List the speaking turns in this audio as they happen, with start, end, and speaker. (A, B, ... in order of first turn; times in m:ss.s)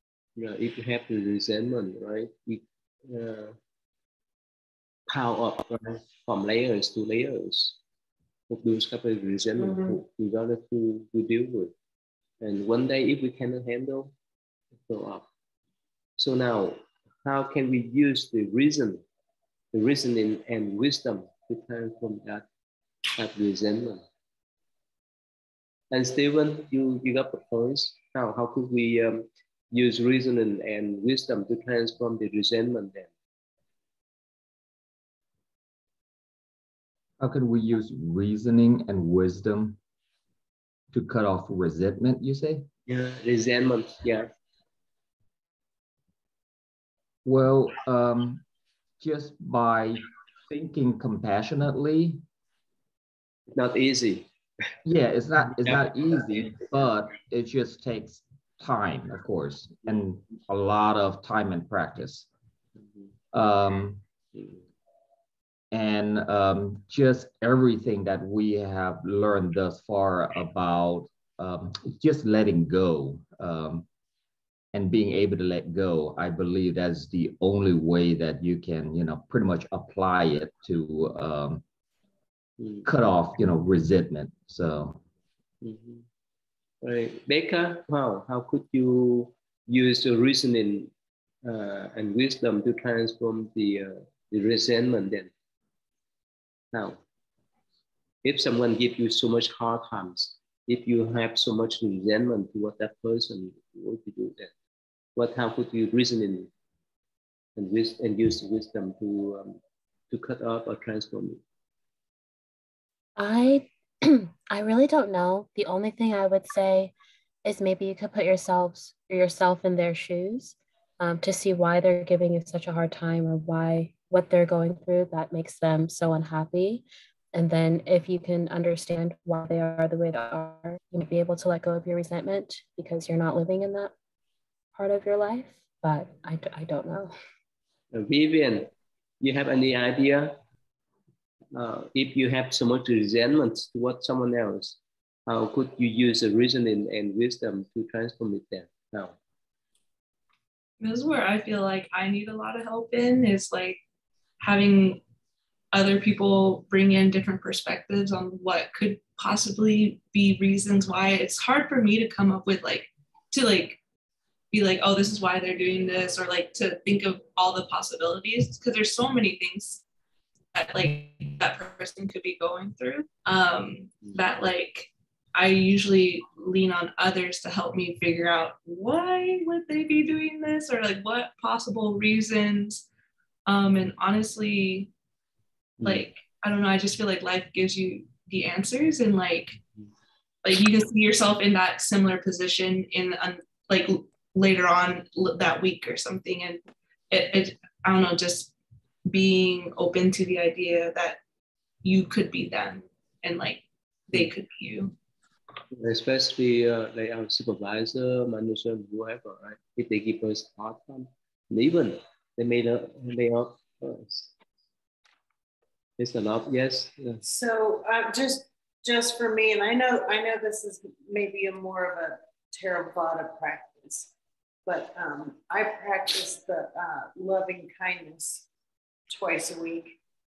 0:00.4-0:03.6 A
0:05.1-0:07.8 A
0:08.5-0:11.7 A
0:12.4-0:14.1 A
0:14.9-0:15.3 A
0:16.2-0:19.0 A
0:19.7-0:22.5 A
0:23.2-0:24.0 A
0:25.9-0:33.1 A
0:37.2-0:39.8 B
0:40.9-0:42.7 B
0:42.9-0:44.3 A
0:47.2-0:48.4 B
0:49.0-0:52.2 B
0:53.5-0:54.3 A
0:54.8-1:02.3 B
0:55.6-0:56.7 A
1:02.8-1:03.1 A
1:03.3-1:04.0 B
1:04.3-1:04.6 A
1:05.7-1:13.9 B
1:14.7-1:21.6 B
1:22.6-1:22.9 A
1:22.8-1:25.0 B
1:25.6-1:26.1 A
1:26.8-1:30.9 A
1:31.4-1:35.3 A
1:36.7-1:37.0 A
1:38.2-1:44.5 A
1:45.2-1:46.5 A
1:47.6-1:51.4 A
1:53.2-1:56.9 C
1:57.4-2:13.9 C
2:14.7-2:17.2 C
2:17.9-2:20.4 A
2:21.6-2:29.2 A
2:30.8-2:33.8 D
2:34.4-2:35.0 D
2:35.7-2:43.8 D
2:44.5-2:49.8 D
2:50.5-3:02.8 D
3:03.5-3:04.9 D
3:05.8-3:06.1 A
3:05.8-3:09.6 D
3:10.4-3:18.5 D
3:19.1-3:21.2 D
3:21.8-3:25.0 D
3:25.7-3:34.3 A
3:36.0-3:37.2 A
3:37.2-3:44.1 E
3:44.7-3:48.5 E
3:49.1-3:50.0 E